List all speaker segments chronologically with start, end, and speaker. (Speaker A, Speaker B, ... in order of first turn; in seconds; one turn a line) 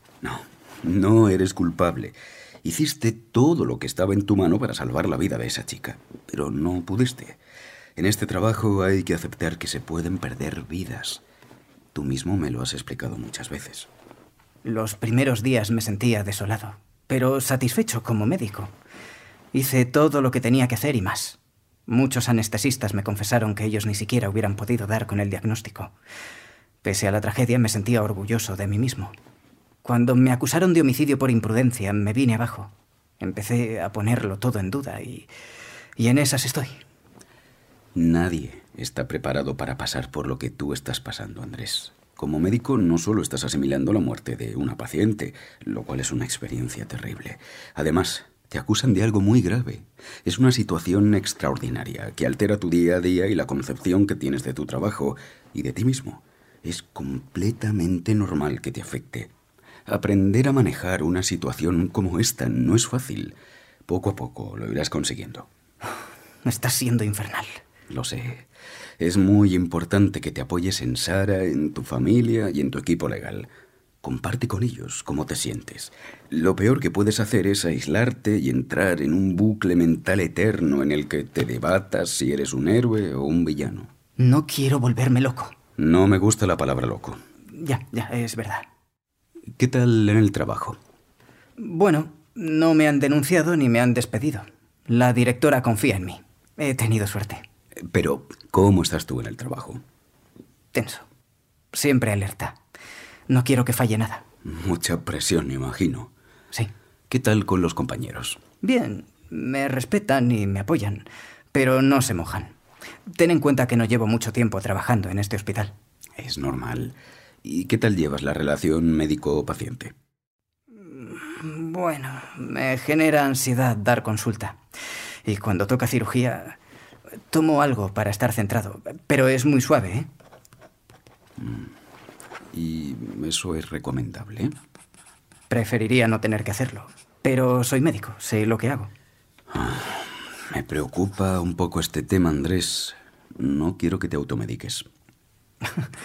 Speaker A: 0.2-7.4
Speaker A: 8.0-11.2
Speaker A: 11.9-13.9
Speaker B: 14.6-18.7
Speaker B: 19.5-25.9
Speaker B: 26.8-29.1
Speaker B: 29.8-35.3
Speaker B: 36.0-36.8
Speaker A: 38.0-59.3
Speaker A: 59.9-65.5
Speaker B: 66.4-67.6
Speaker A: 67.9-68.5
Speaker A: 69.0-73.5
Speaker A: 74.0-83.9
Speaker B: 84.2-85.5
Speaker A: 85.8-87.2
Speaker B: 87.5-88.6
Speaker A: 89.5-90.8
Speaker B: 91.6-97.4
Speaker A: 97.8-99.8
Speaker B: 100.7-101.0
Speaker B: 101.7-102.6
Speaker B: 103.3-104.2
Speaker A: 104.4-106.1
Speaker A: 107.1-108.4
Speaker B: 108.6-112.5
Speaker B: 113.1-115.7
Speaker A: 116.2-119.9
Speaker B: 120.8-124.6
Speaker B: 125.2-126.5
Speaker B: 127.3-130.1
Speaker A: 131.4-131.7
Speaker A: 132.5-134.5
Speaker B: 135.5-138.9
Speaker A: 139.5-144.8